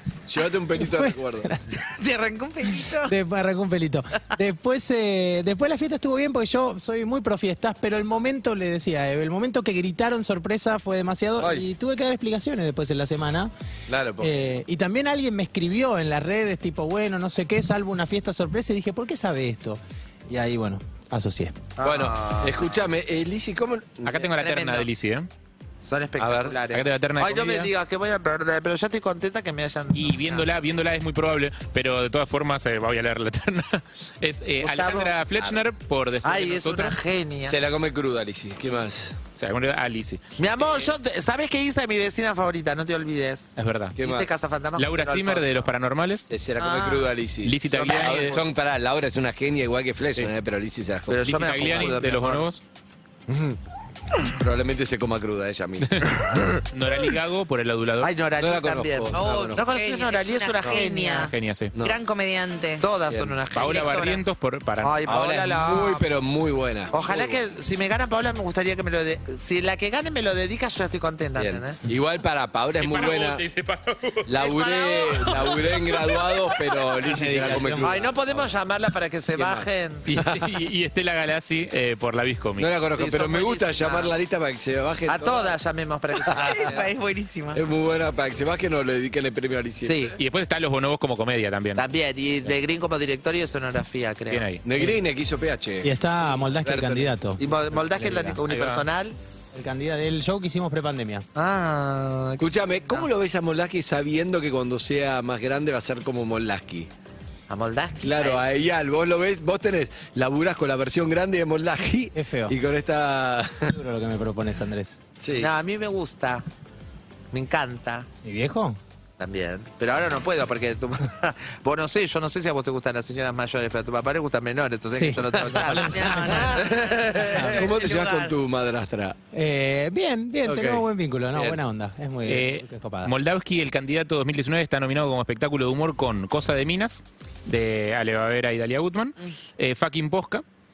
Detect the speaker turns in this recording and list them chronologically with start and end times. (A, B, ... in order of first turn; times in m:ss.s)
0:00.3-0:01.5 A
0:00.7-0:01.8 B
0:01.8-0:03.1 C
0:02.7-0:13.5 B
0:11.4-0:11.7 A
0:13.9-0:14.5 A
0:14.2-0:21.6 B
0:21.8-0:22.7 D
0:21.8-0:24.4 A
0:24.0-0:25.3 E
0:24.4-0:24.8 D
0:25.8-0:30.5 D
0:26.2-0:26.6 A
0:26.7-0:27.7 E
0:29.9-0:37.0 E
0:34.6-0:35.6 D
0:36.2-0:37.6 D
0:37.4-0:39.2 A
0:39.4-0:40.2 E
0:40.4-0:45.7 D
0:40.6-0:40.9 A
0:43.6-0:44.0 E
0:44.0-0:44.3 A
0:44.8-0:46.3 E
0:46.3-0:52.0 A
0:46.6-0:47.0 C
0:47.4-0:48.4 E
0:47.8-0:48.4 D
0:51.1-0:52.4 D
0:51.2-0:52.6 E
0:53.3-0:53.6 D
0:54.3-0:56.3 A
0:55.9-0:58.1 E
0:58.0-1:01.3 D
0:58.4-0:59.7 A
0:59.1-1:02.8 C
1:01.3-1:01.7 E
1:02.8-1:03.8 D
1:03.1-1:03.4 A
1:03.5-1:05.0 E
1:03.6-1:04.2 C
1:04.8-1:06.0 D
1:05.0-1:07.4 A
1:06.9-1:11.8 D
1:11.4-1:13.4 A
1:12.8-1:14.3 E
1:14.2-1:18.6 A
1:14.4-1:15.5 C
1:17.0-1:18.0 B
1:17.8-1:20.0 D
1:19.3-1:20.4 A
1:20.1-1:22.7 E
1:22.6-1:25.6 A
1:22.9-1:24.1 D
1:25.1-1:26.9 D
1:26.2-1:26.7 A
1:26.2-1:27.6 C
1:27.5-1:30.2 A
1:29.8-1:30.2 D
1:30.2-1:31.9 E
1:31.8-1:34.4 D
1:34.3-1:34.6 E
1:34.6-1:37.1 A
1:35.8-1:37.4 B
1:37.4-1:39.2 D
1:37.9-1:38.4 B
1:38.5-1:38.8 E
1:39.5-1:41.2 B
1:41.4-1:43.1 D
1:42.4-1:46.9 A
1:47.5-1:48.4 D
1:48.0-1:53.8 A
1:52.1-1:52.5 B
1:53.7-1:55.0 B
1:55.2-1:55.5 A
1:55.4-1:56.4 D
1:57.3-1:58.1 D
1:58.2-1:58.8 B
1:59.2-2:07.5 D
2:04.9-2:06.6 B
2:05.1-2:09.2 A
2:05.7-2:08.3 C
2:07.2-2:07.6 B
2:09.3-2:13.1 B
2:10.4-2:11.6 A
2:12.2-2:20.4 E